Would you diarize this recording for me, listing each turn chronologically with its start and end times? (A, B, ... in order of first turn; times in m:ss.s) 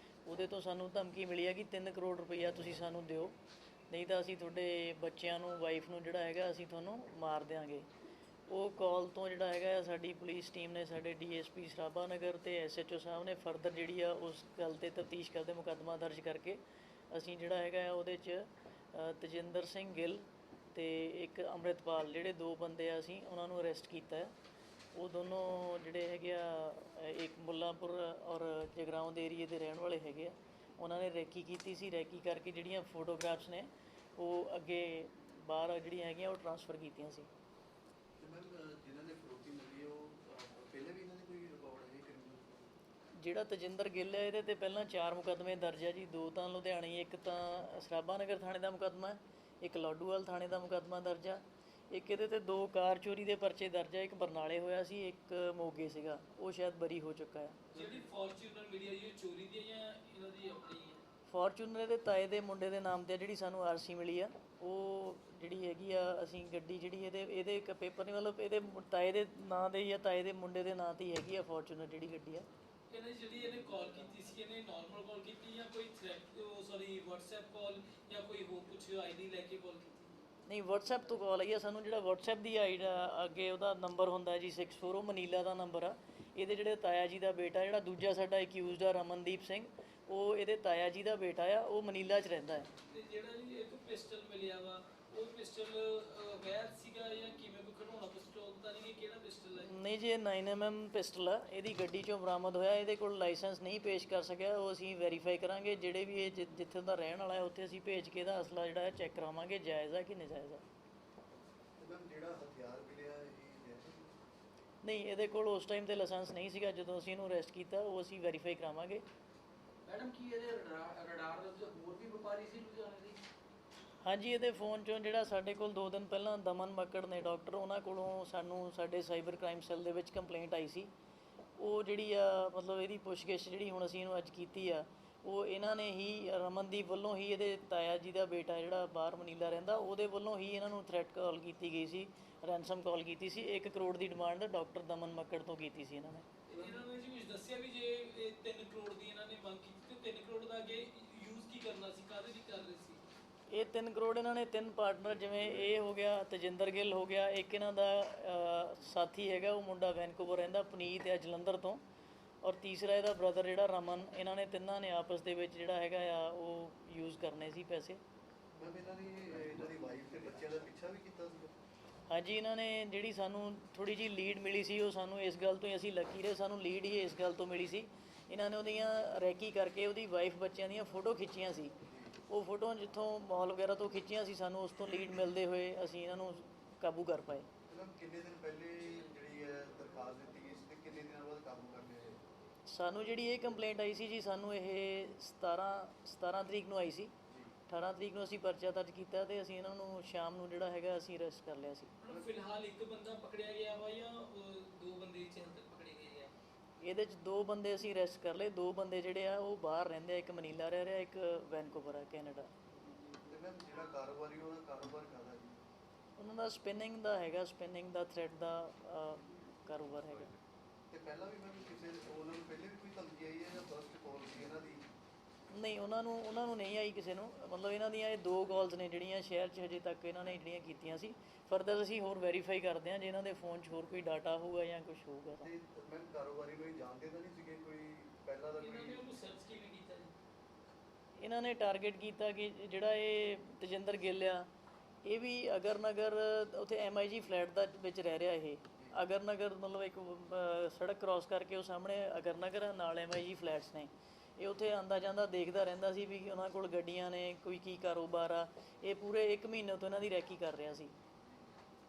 0:00.2-0:03.4 A
0:03.9-0:07.9 A
0:08.5-0:24.3 A
0:24.9-0:37.3 A
0:38.2-0:42.7 B
0:43.2-0:57.7 A
0:57.7-1:01.0 C
0:57.7-0:58.0 B
1:01.3-1:12.4 A
1:12.9-1:20.2 C
1:20.5-1:32.7 A
1:32.8-1:39.7 C
1:39.6-1:50.6 A
1:51.8-1:54.2 B
1:54.8-1:59.0 A
1:59.8-2:03.2 D
2:04.0-2:10.9 A
2:11.6-2:26.3 A
2:26.5-2:33.0 C
2:26.5-2:26.8 B
2:33.5-2:41.8 A
2:42.4-2:48.0 A
2:48.6-2:51.5 B
2:52.1-3:01.7 A
3:01.8-3:02.2 B
3:02.3-3:07.5 A
3:07.7-3:12.2 B
3:12.7-3:17.1 A
3:17.3-3:17.5 B
3:17.7-3:21.9 A
3:22.0-3:26.3 C
3:26.8-3:32.5 A
3:33.1-3:35.6 B
3:36.2-3:40.3 A
3:40.9-3:44.8 B
3:45.5-3:55.5 A
3:55.4-3:59.1 B
3:58.6-4:00.1 C
4:01.2-4:04.5 A
4:05.0-4:20.9 A